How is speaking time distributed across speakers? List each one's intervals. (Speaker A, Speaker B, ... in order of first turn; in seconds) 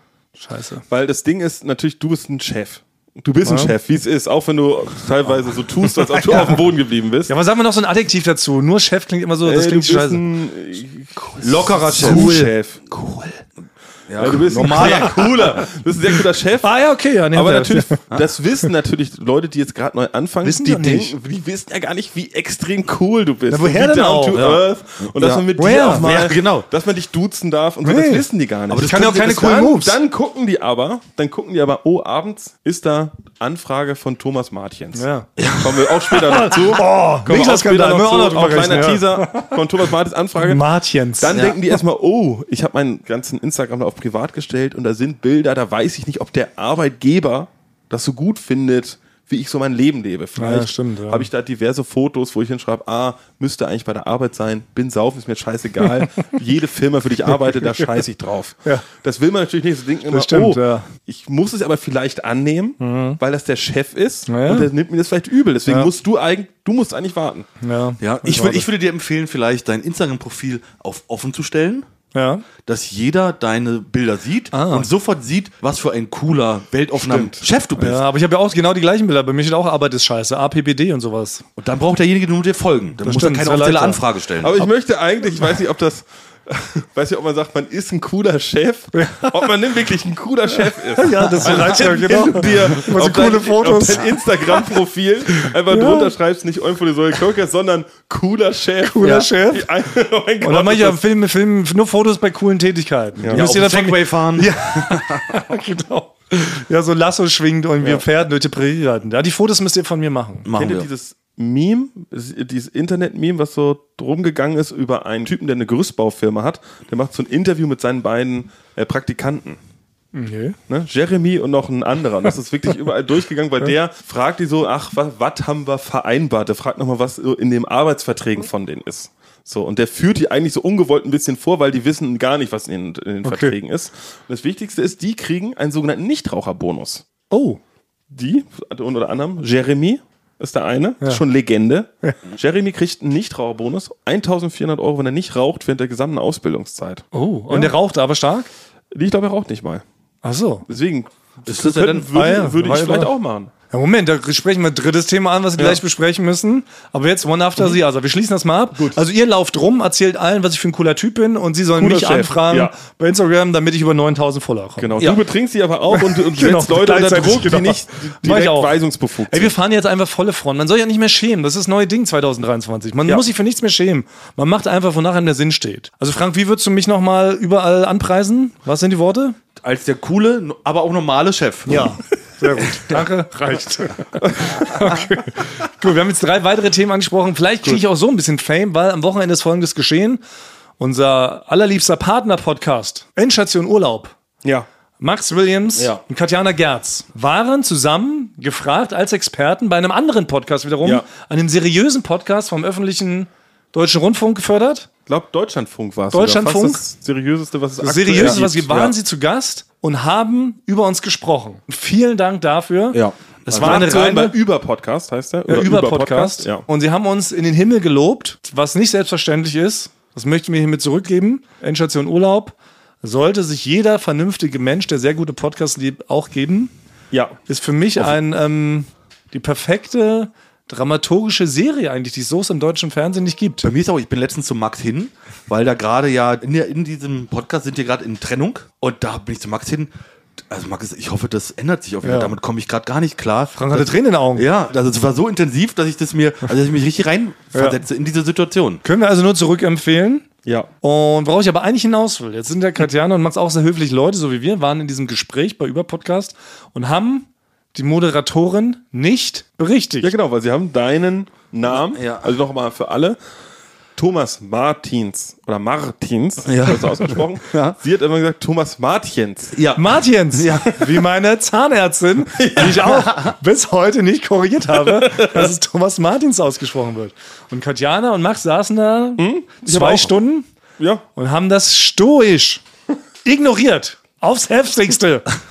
Speaker A: 0.4-0.8, 3.4-3.7, 6.3-6.6, 7.3-10.2, 11.8-12.5, 14.6-15.2, 16.6-18.0, 20.4-21.1, 23.5-24.4, 25.6-26.1, 27.8-28.2, 28.8-30.0, 35.0-35.3, 36.1-39.6, 40.4-41.4, 50.4-51.3, 55.9-56.2, 60.1-60.9, 62.8-63.2, 64.3-64.7, 67.6-68.7, 72.1-72.5, 74.5-74.9, 77.1-81.5, 83.0-84.0, 88.9-89.5, 90.9-94.2, 95.5-96.1, 98.8-99.7, 100.4-110.5, 120.1-120.6, 133.2-133.6, 137.3-137.6, 147.1-148.5, 150.2-150.7, 152.1-153.1, 153.7-165.0, 165.9-168.8, 169.3-179.4, 181.7-190.2, 190.8-194.1, 195.0-204.9, 206.1-206.8, 207.8-214.4, 215.5-226.7, 227.5-233.6, 242.0-242.4, 243.6-244.4, 247.5-247.8, 248.8-250.3, 250.8-260.1, 269.8-280.5, 281.1-282.6, 283.2-285.3
Speaker B: 0.9-7.3, 9.4-12.8, 14.2-16.7, 17.3-40.6, 41.2-67.5, 84.4-101.0, 103.2-103.5, 110.5-119.6, 120.7-137.1, 138.1-147.7, 148.9-149.8, 150.7-153.5, 158.7-159.0, 161.8-162.7, 164.8-169.6, 184.2-184.5, 205.1-208.8, 213.6-216.6, 227.1-227.4, 260.0-263.2, 263.9-269.6, 272.4-273.1, 274.7-275.5, 279.2-280.1, 280.8-281.1
Speaker C: 11.4-12.3, 12.9-13.3, 14.1-15.6, 24.3-26.6, 28.7-29.3, 35.4-36.3, 41.3-41.6, 68.0-71.9, 72.7-78.0, 81.6-84.7, 103.3-105.3, 110.5-110.9, 151.4-152.1, 179.6-181.9, 195.8-196.0, 208.2-208.9, 212.9-213.9, 233.6-239.9, 240.5-248.8, 261.9-262.3, 266.4-267.8, 269.5-270.8